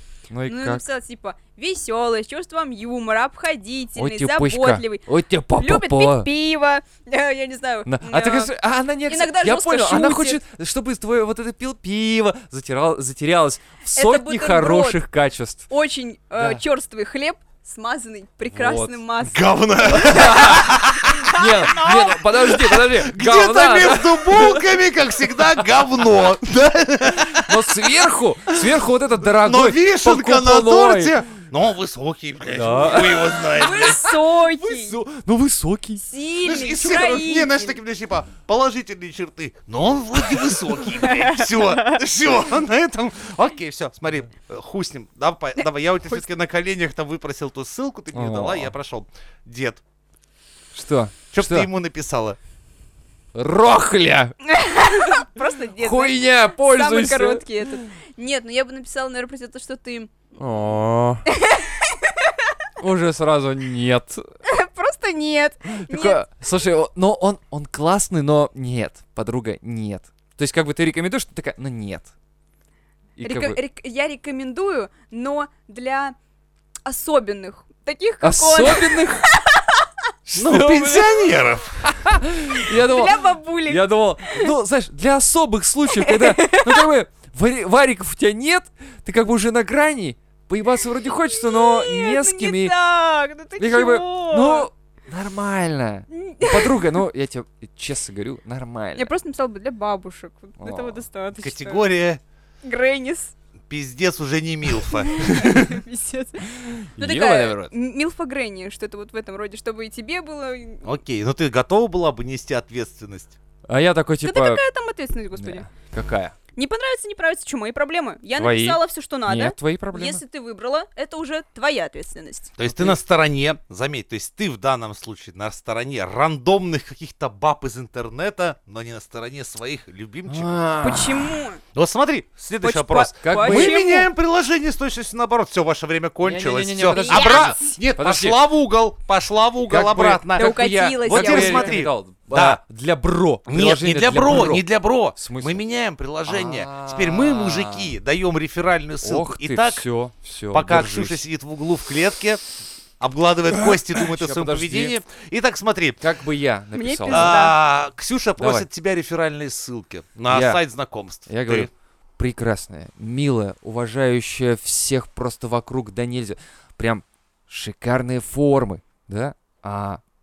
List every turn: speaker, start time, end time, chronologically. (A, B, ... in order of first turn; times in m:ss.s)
0:00.3-0:00.8 A
0:00.4-0:08.5 B
0:03.9-0:06.3 A
0:07.8-0:15.7 A
0:09.1-0:10.4 B
0:13.9-0:15.0 B
0:15.7-0:22.1 B
0:18.5-0:19.0 A
0:19.2-0:21.2 C
0:19.9-0:24.8 A
0:21.9-0:28.0 C
0:27.1-0:31.2 A
0:29.4-0:34.0 C
0:32.5-0:36.0 A
0:33.6-0:35.0 B
0:36.0-0:37.8 B
0:36.4-0:49.8 C
0:41.0-0:42.0 B
0:48.1-0:48.7 A
0:50.7-0:51.7 A
0:51.3-0:52.4 C
0:53.3-0:54.4 A
0:54.4-1:00.1 B
0:55.0-0:55.2 A
0:55.8-0:57.8 A
1:00.3-1:01.2 A
1:01.3-1:02.5 B
1:02.8-1:04.2 A
1:04.4-1:06.2 B
1:05.7-1:12.1 A
1:13.2-1:13.6 A
1:13.2-1:16.1 B
1:16.8-1:19.8 B
1:18.2-1:19.2 A
1:20.2-1:32.7 A
1:20.4-1:21.9 C
1:22.5-1:24.5 B
1:25.9-1:26.9 B
1:31.3-1:34.7 B
1:33.6-1:39.1 A
1:36.1-1:37.0 B
1:39.0-1:41.9 B
1:40.6-1:41.0 A
1:41.4-1:42.2 C
1:42.6-1:43.3 B
1:43.7-1:45.8 C
1:45.0-1:50.8 B
1:46.7-1:47.7 A
1:50.8-1:53.4 C
1:53.7-1:54.6 A
1:54.2-1:55.7 B
1:55.3-1:56.3 A
1:56.6-2:02.5 B
1:58.4-2:00.2 A
2:02.6-2:10.6 C
2:02.6-2:03.0 A
2:10.3-2:11.3 A
2:10.8-2:11.6 B
2:11.7-2:22.6 C
2:12.6-2:14.1 B
2:13.2-2:13.9 A
2:16.2-2:18.4 A
2:16.9-2:17.7 B
2:19.7-2:25.6 A
2:20.4-2:21.7 B
2:23.5-2:29.8 C
2:26.2-2:28.0 A
2:29.0-2:31.2 A
2:30.5-2:32.4 C
2:33.0-2:36.0 C
2:33.5-2:34.9 A
2:36.0-2:37.4 A
2:36.7-2:37.5 B
2:37.1-2:41.7 C
2:38.4-2:38.6 A
2:40.3-2:40.6 A
2:41.3-2:50.0 A